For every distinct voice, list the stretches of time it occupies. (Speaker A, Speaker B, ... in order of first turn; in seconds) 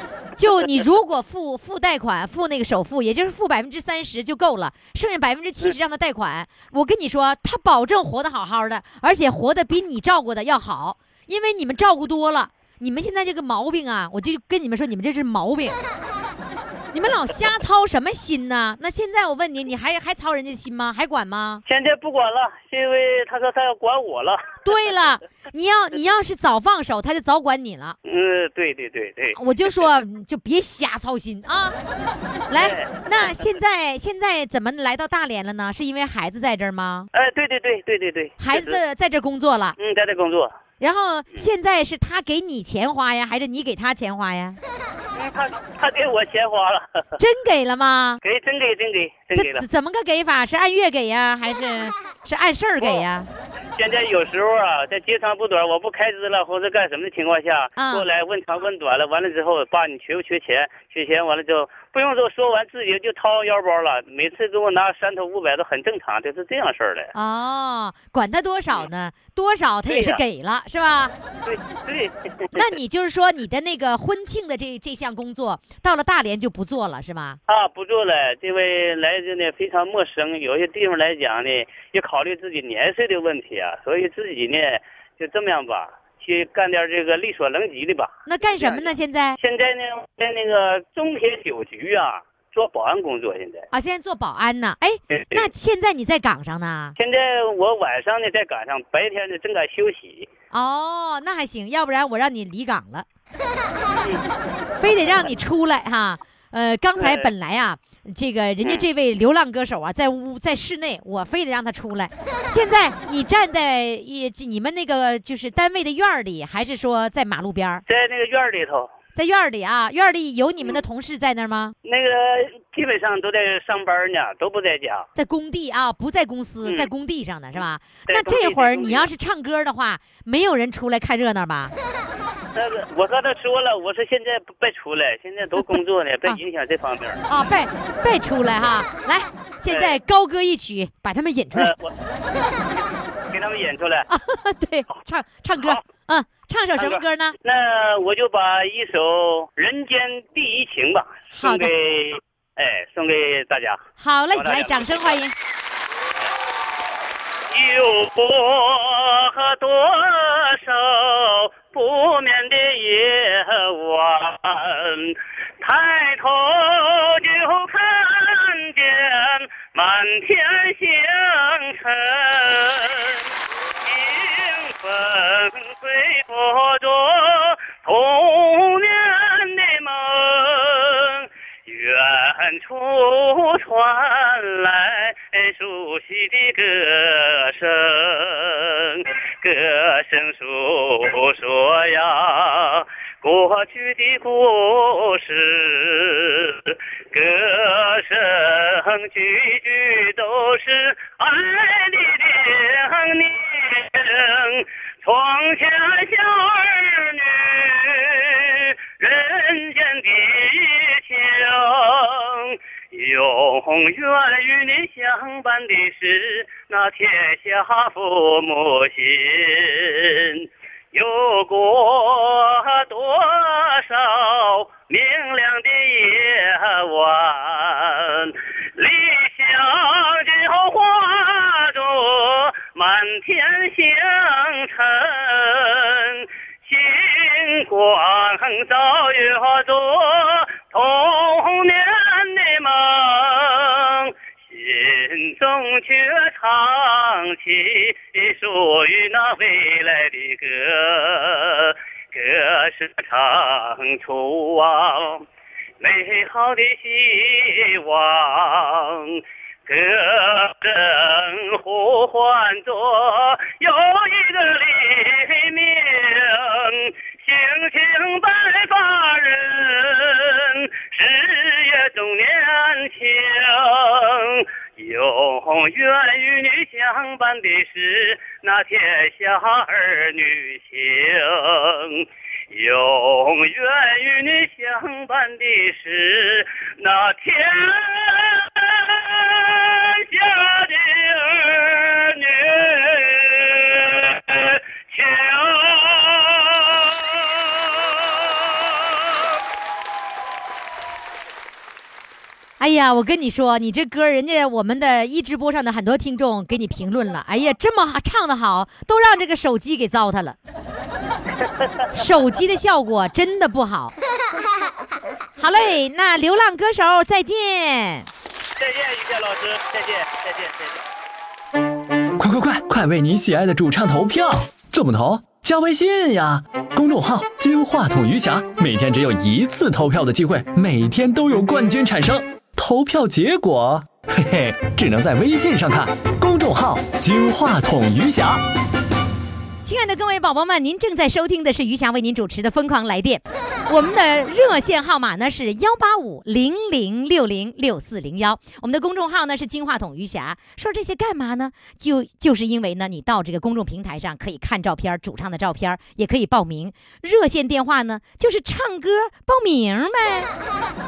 Speaker A: 0.4-15.8, 16.9-21.6, 24.6-28.0, 29.3-31.7, 32.5-37.1, 38.4-39.8, 40.8-44.6, 47.2-48.2, 49.3-53.3, 57.8-58.0, 67.1-71.1, 72.5-77.4, 88.2-89.4, 93.7-97.0, 100.5-103.0, 104.8-117.8, 119.1-121.7, 125.1-131.7, 135.6-136.4, 137.3-141.7, 144.1-147.3, 151.3-151.7, 154.0-155.3, 302.6-310.4, 311.9-313.9, 315.4-318.1, 339.6-360.3
Speaker B: 21.6-24.6, 28.0-29.9, 32.6-33.4, 37.1-38.8, 39.8-40.5, 45.1-47.0, 48.2-49.6, 53.7-67.1, 69.9-70.2, 71.4-72.7, 77.5-93.7, 95.1-95.4, 97.0-100.3, 107.0-107.3, 117.9-118.9, 121.8-125.0, 126.6-126.9, 128.1-129.1, 132.5-137.4, 139.7-140.0, 141.5-144.1, 146.8-153.8, 154.3-155.2, 157.5-173.2, 173.8-255.2, 255.8-299.1, 311.4-312.0, 318.6-320.8
Speaker C: 322.2-338.4